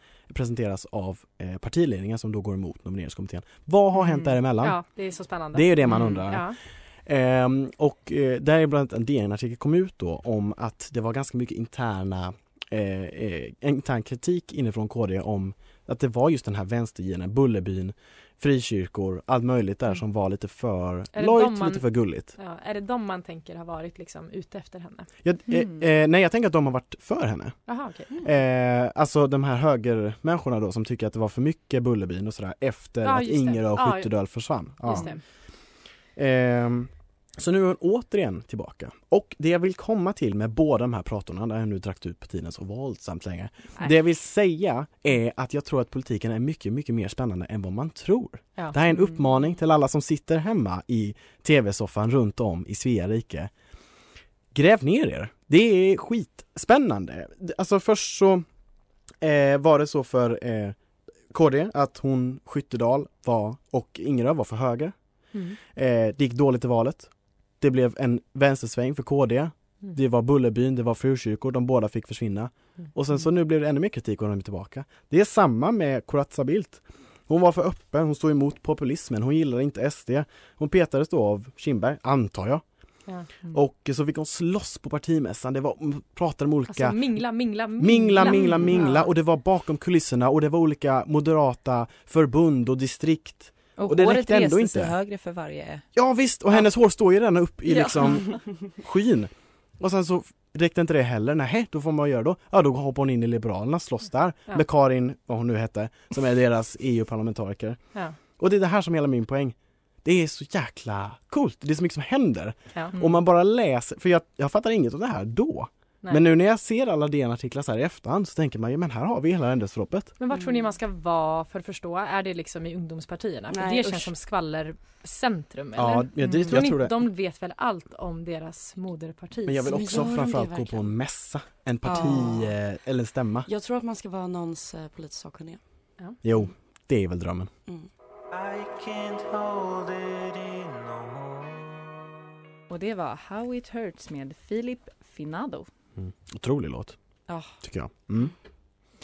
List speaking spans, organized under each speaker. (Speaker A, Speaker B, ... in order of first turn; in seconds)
Speaker A: 0.3-4.8, 5.5-22.3, 25.2-53.5, 54.5-58.5, 59.2-64.9, 65.6-95.0, 95.9-120.1, 125.8-127.1, 129.4-133.5, 136.2-137.5, 139.1-139.6, 145.9-147.0, 147.6-148.3
Speaker B: 3.9-4.4, 5.8-6.2, 25.5-25.9, 48.9-49.2, 88.7-89.0, 93.8-95.9, 97.7-98.7, 112.9-113.2, 142.7-145.7
Speaker C: 4.6-6.6, 21.1-25.1, 27.7-28.1, 33.0-35.2, 65.3-65.6, 86.7-89.0, 120.2-130.1
Speaker D: 123.5-124.1, 129.6-131.0, 131.8-132.6, 133.4-135.8, 137.6-137.9